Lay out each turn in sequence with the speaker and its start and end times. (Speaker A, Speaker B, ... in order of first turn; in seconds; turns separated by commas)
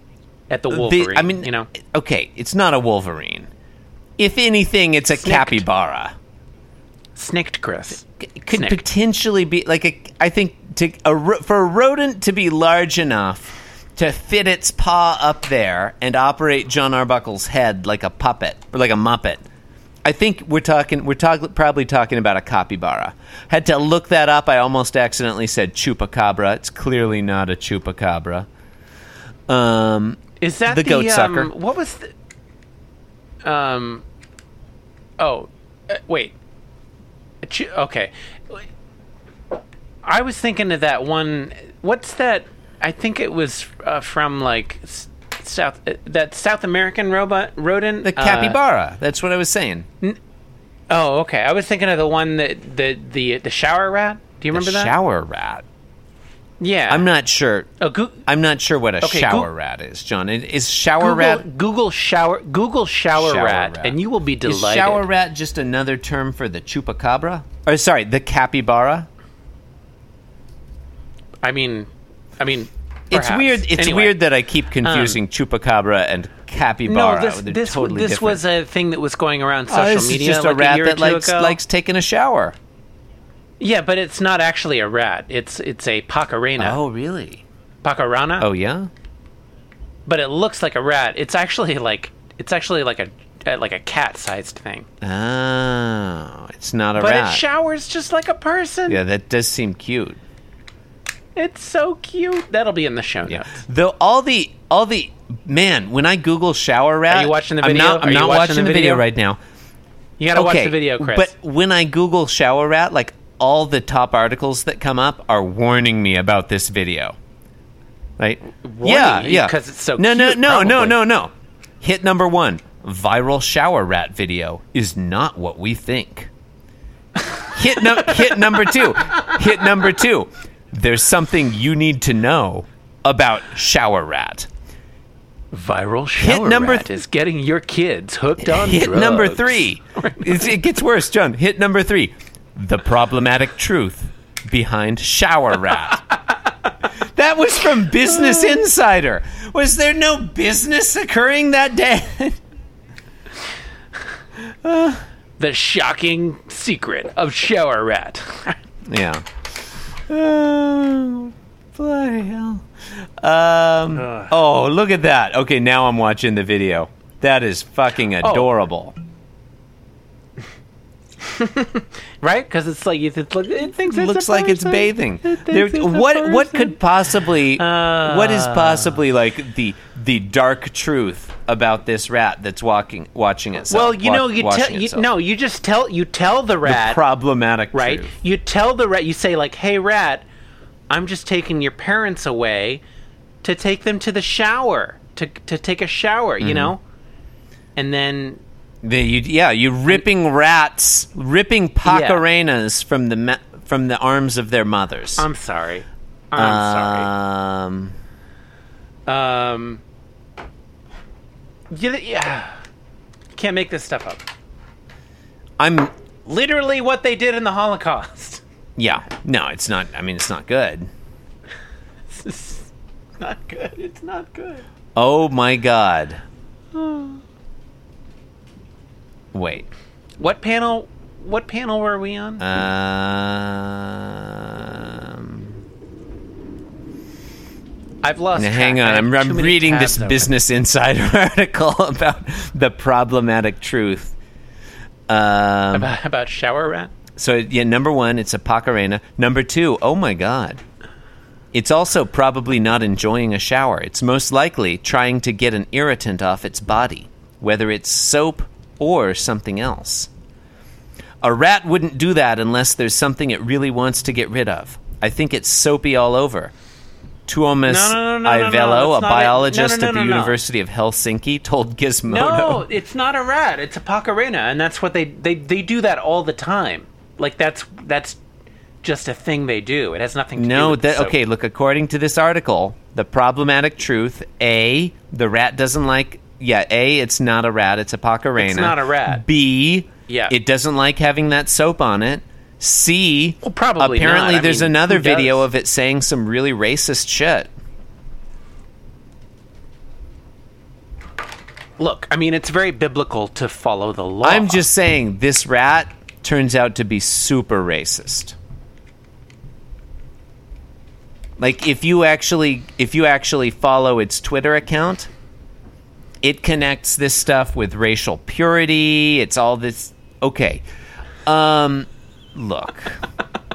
Speaker A: 0.5-1.7, Speaker B: 0.7-3.5, Speaker B: 4.2-6.1, Speaker A: 5.1-5.7, Speaker A: 7.2-8.8, Speaker B: 8.2-19.4, Speaker B: 20.0-28.5, Speaker B: 29.5-31.5, Speaker A: 30.4-32.1, Speaker A: 33.4-34.0, Speaker A: 35.2-36.3, Speaker A: 37.4-38.6, Speaker A: 40.0-48.6, Speaker B: 48.0-49.9, Speaker A: 50.9-54.9, Speaker B: 54.5-55.6, Speaker A: 56.6-57.1, Speaker B: 56.9-57.7, Speaker A: 57.8-58.2, Speaker B: 58.3-61.5, Speaker A: 59.0-59.5, Speaker A: 61.0-65.0, Speaker B: 63.1-69.1, Speaker A: 71.4-74.2, Speaker B: 73.1-78.4, Speaker A: 74.8-75.2, Speaker A: 76.8-81.6, Speaker B: 79.7-82.5, Speaker A: 83.6-86.8, Speaker B: 86.6-87.4, Speaker A: 87.8-88.5, Speaker B: 88.4-88.9, Speaker A: 90.0-94.9, Speaker B: 95.0-97.4, Speaker A: 97.0-99.0, Speaker B: 98.9-100.2, Speaker A: 101.3-103.6, Speaker B: 103.3-109.4, Speaker A: 107.1-109.0, Speaker A: 110.2-111.3, Speaker B: 110.3-117.2, Speaker B: 118.2-121.3, Speaker A: 118.5-121.0, Speaker B: 121.8-126.3, Speaker A: 127.3-129.4, Speaker B: 127.5-134.5, Speaker A: 135.5-140.6, Speaker B: 136.2-136.9, Speaker B: 138.4-146.0, Speaker B: 147.1-152.4, Speaker A: 154.9-158.6, Speaker B: 158.8-159.2, Speaker B: 160.1-162.7, Speaker B: 163.2-168.9, Speaker A: 164.0-164.3, Speaker A: 168.2-168.5, Speaker A: 171.2-179.0, Speaker B: 173.8-185.1, Speaker A: 183.7-187.0, Speaker B: 186.6-188.1, Speaker A: 187.7-190.2, Speaker A: 190.9-192.8, Speaker A: 193.4-196.8, Speaker B: 196.4-196.7, Speaker A: 197.8-198.4, Speaker B: 198.8-205.3, Speaker A: 201.8-202.2, Speaker A: 205.2-207.1, Speaker B: 206.3-207.9, Speaker A: 209.1-209.8, Speaker A: 211.7-212.5, Speaker A: 213.3-214.2, Speaker B: 215.6-215.9, Speaker A: 216.2-218.4, Speaker B: 218.8-220.9, Speaker A: 222.1-224.7, Speaker B: 224.9-226.2, Speaker A: 226.7-227.2, Speaker B: 229.3-229.7, Speaker A: 230.2-232.6, Speaker B: 232.4-235.6, Speaker A: 238.0-240.3, Speaker B: 238.3-244.2, Speaker B: 245.1-245.9, Speaker A: 245.7-246.9, Speaker B: 247.2-250.6, Speaker B: 251.5-260.1, Speaker B: 261.2-266.5, Speaker B: 267.3-272.6, Speaker A: 267.6-270.4, Speaker A: 272.1-278.2, Speaker A: 278.8-281.1, Speaker B: 280.4-297.5, Speaker A: 288.4-289.2, Speaker A: 290.1-290.3, Speaker A: 293.4-295.5, Speaker A: 301.8-304.6, Speaker B: 304.2-308.4, Speaker B: 311.4-315.1, Speaker B: 316.2-320.6, Speaker B: 321.2-323.0